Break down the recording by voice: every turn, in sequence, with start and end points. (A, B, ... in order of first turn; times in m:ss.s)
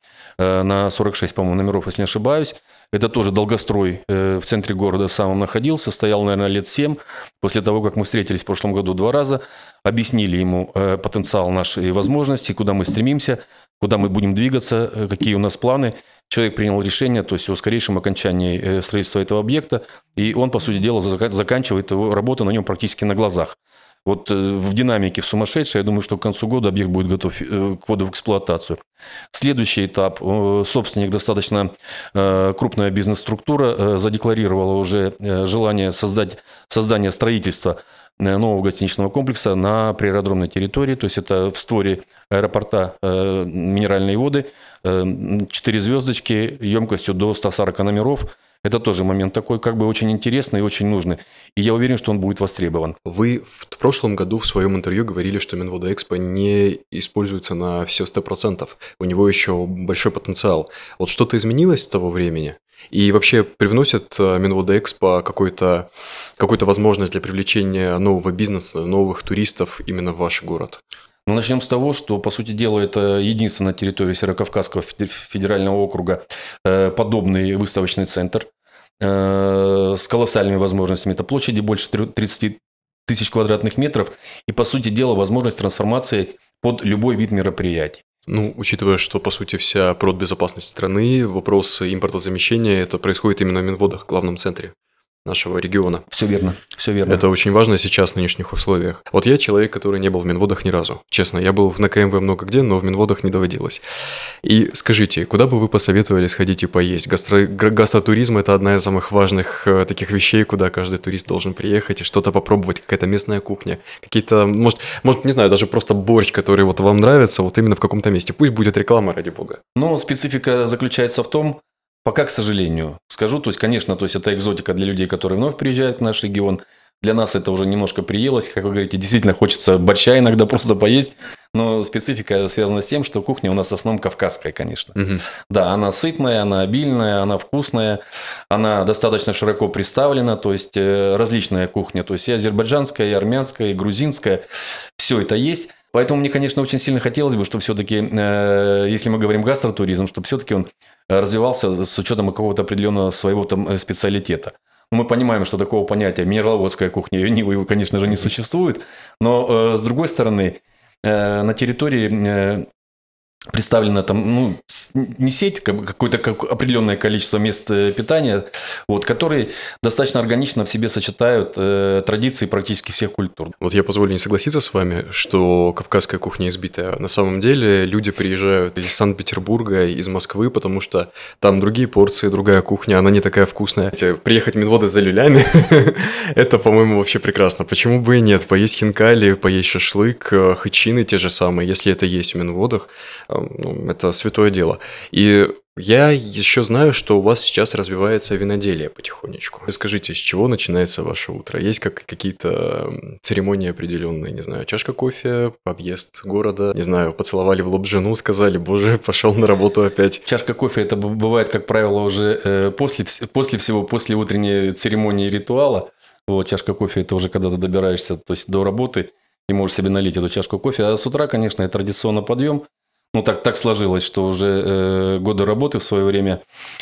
0:00.4-0:28.8 A
0:29.3-0:53.0 A
0:53.0-1:10.8 B
1:11.2-1:18.5 A
1:19.0-1:28.0 A
1:28.3-1:36.1 B
1:36.1-1:37.2 A
1:37.0-1:43.8 B
1:44.4-1:59.6 B
1:59.7-2:24.4 A
2:15.0-2:15.2 B
2:25.0-2:42.7 A
2:43.5-2:53.6 A
2:53.6-3:30.2 B
3:30.2-3:46.4 A